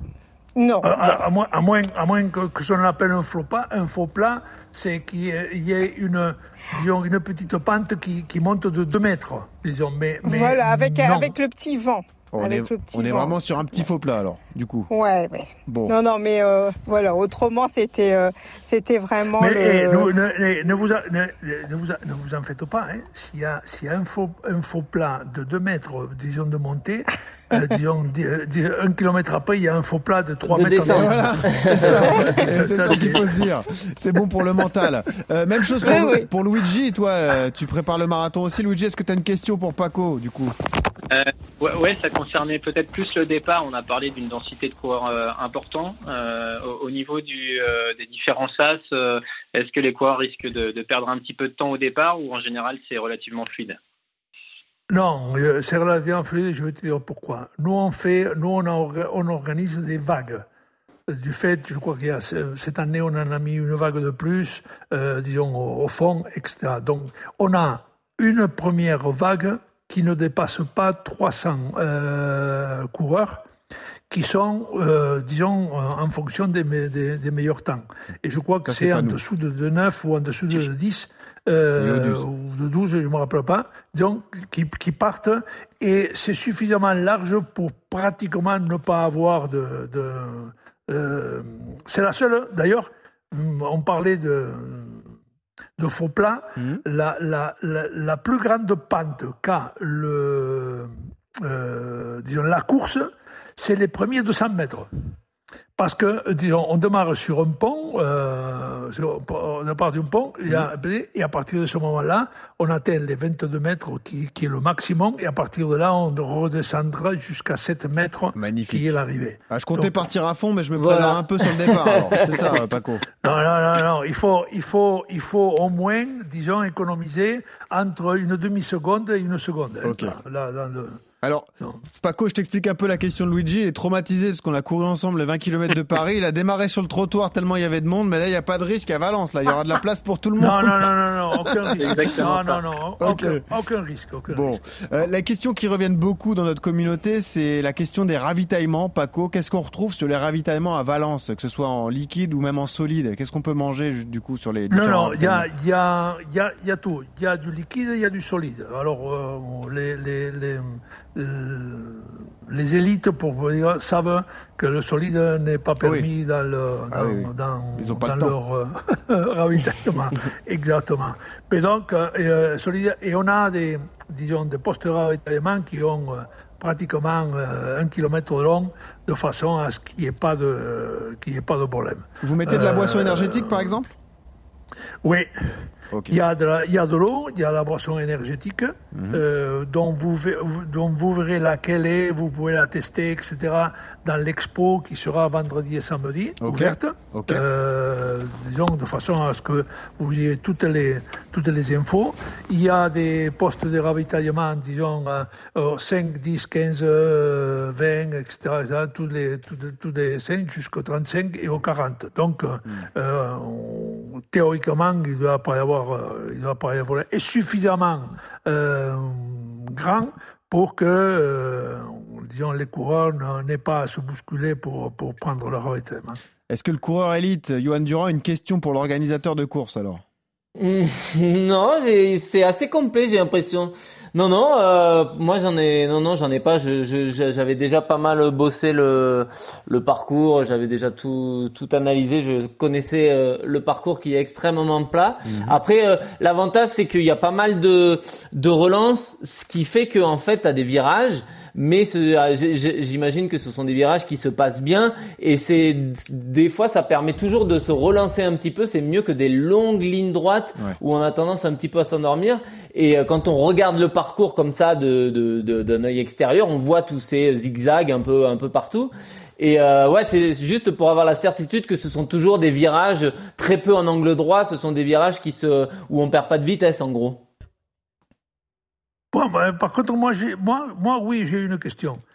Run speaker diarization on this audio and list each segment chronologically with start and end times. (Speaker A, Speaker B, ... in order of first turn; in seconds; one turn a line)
Speaker A: 0.6-1.2
Speaker B: 0.8-11.3
Speaker A: 10.2-13.9
Speaker C: 12.3-14.9
Speaker A: 14.9-20.1
Speaker C: 15.7-15.9
Speaker B: 19.4-31.1
Speaker D: 30.5-32.1
Speaker C: 30.9-40.6
Speaker B: 31.8-33.2
Speaker A: 35.8-36.3
Speaker E: 41.1-53.8
Speaker B: 54.9-60.5
Speaker B: 61.1-73.5
Speaker B: 74.1-95.1
Speaker C: 78.7-79.2
Speaker C: 81.8-82.2
Speaker B: 95.8-104.9
Speaker C: 96.6-96.8
Speaker B: 105.8-119.9
Speaker C: 118.3-119.0
Speaker C: 119.5-123.1
Speaker D: 120.8-122.6
Speaker B: 123.2-131.0
Speaker C: 129.8-130.2
Speaker C: 131.2-142.3
Speaker B: 140.4-144.6
Speaker E: 141.8-142.6
Speaker C: 143.0-143.4
Speaker C: 144.3-155.5
Speaker B: 154.7-183.8
Speaker C: 165.8-166.1
Speaker C: 166.9-168.3
Speaker C: 182.2-183.9
Speaker B: 185.0-226.2
Speaker C: 185.9-186.2
Speaker C: 188.9-189.2
Speaker C: 196.4-197.4
Speaker C: 226.5-230.0
Speaker D: 230.6-277.2
Speaker C: 245.3-245.6
Speaker B: 279.1-282.0